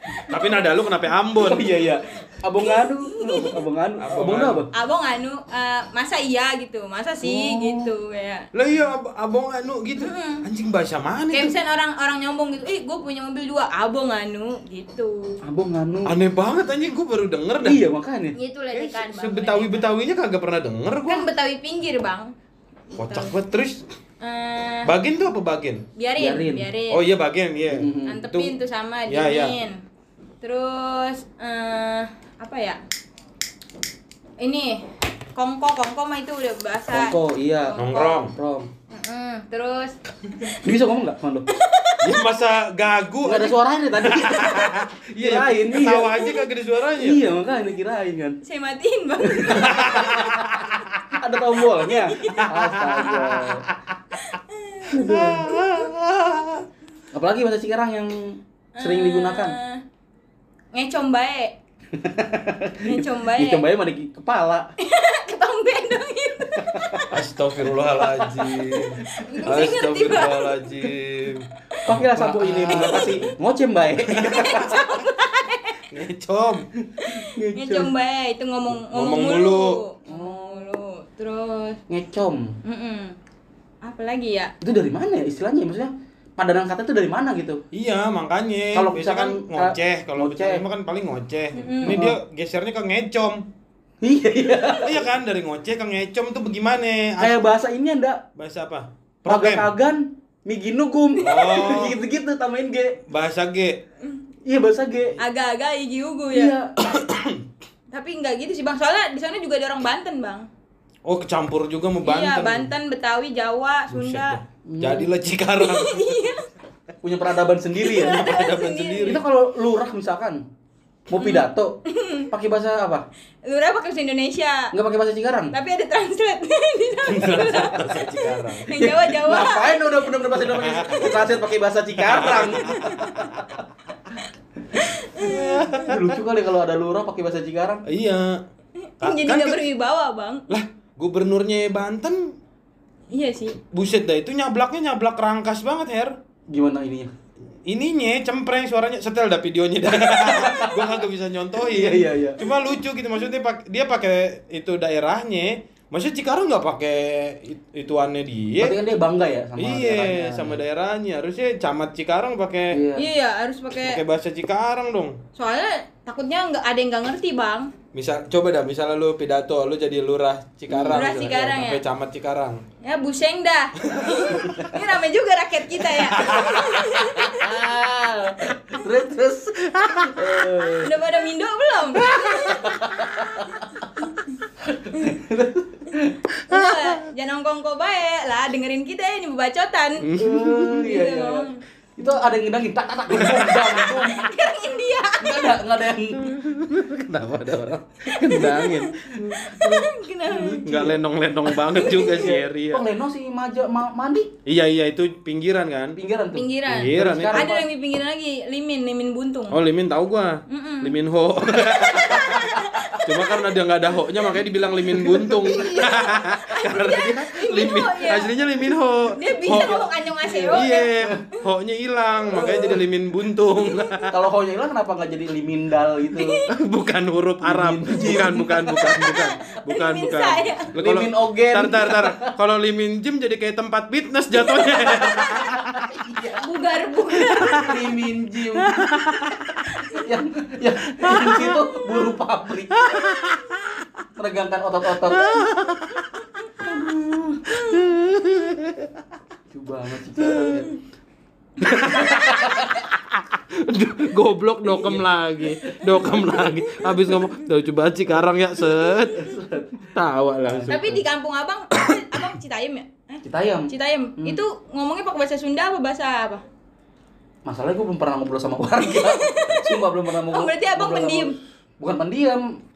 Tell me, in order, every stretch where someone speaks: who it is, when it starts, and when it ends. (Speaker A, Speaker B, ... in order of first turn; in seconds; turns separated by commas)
Speaker A: 0.2-1.7, Speaker B: 1.4-4.7, Speaker C: 2.6-3.6, Speaker A: 4.0-4.7, Speaker C: 4.7-8.5, Speaker B: 7.2-7.9, Speaker A: 8.5-11.5, Speaker C: 10.0-10.4, Speaker C: 11.3-15.4, Speaker B: 15.4-16.1, Speaker A: 16.1-17.8, Speaker B: 17.6-18.4, Speaker C: 18.4-19.9, Speaker A: 18.7-21.3, Speaker C: 21.1-22.3, Speaker C: 23.0-23.3, Speaker A: 23.0-23.8, Speaker C: 24.2-24.9, Speaker A: 24.9-25.9, Speaker C: 26.0-27.0, Speaker B: 26.2-26.7, Speaker A: 26.9-28.6, Speaker B: 27.7-28.2, Speaker C: 28.1-29.8, Speaker A: 29.1-29.6, Speaker C: 30.4-32.8, Speaker C: 34.4-38.3, Speaker B: 36.9-38.7, Speaker A: 37.8-38.4, Speaker C: 38.9-40.6, Speaker B: 40.6-41.5, Speaker C: 41.5-42.2, Speaker A: 42.0-47.2, Speaker B: 43.2-46.3, Speaker B: 47.0-48.4, Speaker C: 48.4-50.2, Speaker B: 49.2-53.7, Speaker A: 49.5-51.2, Speaker C: 52.1-52.5, Speaker A: 52.3-53.7, Speaker C: 54.1-54.9, Speaker B: 54.9-55.6, Speaker A: 54.9-56.6, Speaker B: 57.1-59.6, Speaker C: 58.8-59.8, Speaker C: 60.7-61.6, Speaker B: 61.9-64.7, Speaker C: 62.8-63.7, Speaker C: 64.8-67.1, Speaker B: 66.6-67.2, Speaker A: 67.1-73.3, Speaker B: 68.0-69.3, Speaker C: 69.2-70.7, Speaker B: 71.9-74.8, Speaker C: 72.7-73.1, Speaker A: 74.1-74.8, Speaker C: 74.3-75.8, Speaker A: 75.9-76.7, Speaker B: 76.8-77.9, Speaker C: 77.0-81.8, Speaker A: 78.7-79.8, Speaker B: 80.1-80.8, Speaker B: 81.9-82.6, Speaker C: 82.7-83.2, Speaker C: 83.8-84.5, Speaker B: 84.6-87.6, Speaker A: 87.7-93.5, Speaker B: 88.7-90.6, Speaker C: 91.5-92.0, Speaker B: 91.8-92.2, Speaker B: 94.0-95.1, Speaker A: 94.8-97.4, Speaker B: 97.2-98.2, Speaker A: 98.4-99.7, Speaker B: 99.3-103.0, Speaker A: 101.2-102.0, Speaker A: 103.1-103.8, Speaker B: 104.5-105.2, Speaker C: 105.2-106.5, Speaker B: 106.3-106.7, Speaker A: 106.8-107.4, Speaker C: 107.9-110.5, Speaker A: 111.1-112.7, Speaker C: 112.0-114.4, Speaker A: 113.9-116.3, Speaker B: 114.7-115.1, Speaker C: 115.6-116.4, Speaker B: 117.0-118.3, Speaker C: 117.8-119.2, Speaker A: 118.0-119.2, Speaker B: 119.0-120.4, Speaker B: 121.1-121.8, Speaker C: 121.2-122.3, Speaker B: 122.3-123.1, Speaker C: 123.5-124.7, Speaker B: 124.7-125.5, Speaker C: 125.5-128.1, Speaker A: 127.1-129.0, Speaker C: 128.6-130.2, Speaker B: 128.8-133.4, Speaker A: 130.4-131.2, Speaker A: 132.0-133.3, Speaker C: 132.6-133.3, Speaker C: 134.8-135.6, Speaker A: 135.2-136.2, Speaker B: 135.8-137.8, Speaker A: 137.9-138.4, Speaker C: 138.8-140.5, Speaker A: 139.0-139.7, Speaker A: 140.5-142.3, Speaker C: 143.1-143.6, Speaker A: 143.6-146.1, Speaker B: 146.5-147.1, Speaker A: 147.7-158.8, Speaker B: 150.0-151.0, Speaker B: 151.6-152.4, Speaker B: 158.6-160.6, Speaker A: 159.6-162.8, Speaker B: 162.7-163.1, Speaker C: 163.0-164.0, Speaker A: 163.8-165.2, Speaker C: 165.3-167.7, Speaker A: 167.9-172.6, Speaker B: 170.7-171.2, Speaker C: 170.9-171.8, Speaker C: 172.8-177.6, Speaker A: 173.8-174.5, Speaker A: 176.2-176.8, Speaker B: 176.3-181.0, Speaker A: 179.8-180.3, Speaker C: 180.8-184.3, Speaker B: 182.1-183.8, Speaker B: 184.6-186.2, Speaker A: 186.5-187.0, Speaker C: 186.5-191.6, Speaker A: 190.0-190.9, Speaker B: 190.2-194.3, Speaker A: 193.1-194.1, Speaker C: 193.8-195.6, Speaker B: 195.2-196.4, Speaker A: 196.2-199.7, Speaker B: 198.1-201.0, Speaker C: 198.2-198.9, Speaker C: 199.4-200.7, Speaker A: 200.6-202.8, Speaker C: 201.7-202.2, Speaker B: 201.8-204.4, Speaker A: 204.4-206.0, Speaker B: 205.9-207.7, Speaker C: 206.3-209.6, Speaker A: 206.7-207.5, Speaker A: 209.5-219.9, Speaker C: 210.5-211.0, Speaker C: 211.5-213.4, Speaker B: 214.9-215.5, Speaker C: 215.2-218.3, Speaker C: 219.1-220.9, Speaker B: 219.7-221.2, Speaker A: 220.5-224.2, Speaker B: 222.3-222.8, Speaker B: 224.1-226.4, Speaker C: 226.1-226.5, Speaker A: 226.5-235.9, Speaker B: 227.4-229.2, Speaker C: 228.9-230.7, Speaker B: 230.8-232.3, Speaker B: 234.8-236.5, Speaker C: 234.9-235.4, Speaker C: 236.4-237.8, Speaker A: 237.3-237.8, Speaker B: 237.5-239.4, Speaker A: 238.5-239.8, Speaker B: 239.9-243.2, Speaker A: 240.9-241.7, Speaker A: 242.7-243.9, Speaker B: 244.2-245.4, Speaker A: 245.0-246.2, Speaker B: 246.6-247.6, Speaker A: 247.5-248.9, Speaker B: 249.5-250.7, Speaker A: 250.2-250.7, Speaker A: 251.6-259.3, Speaker B: 251.7-252.8, Speaker B: 254.7-256.3, Speaker B: 259.1-259.9, Speaker A: 259.9-261.0, Speaker B: 260.5-260.8, Speaker C: 260.7-266.4, Speaker A: 261.8-262.2, Speaker B: 263.2-264.4, Speaker B: 267.4-272.6, Speaker C: 268.8-271.4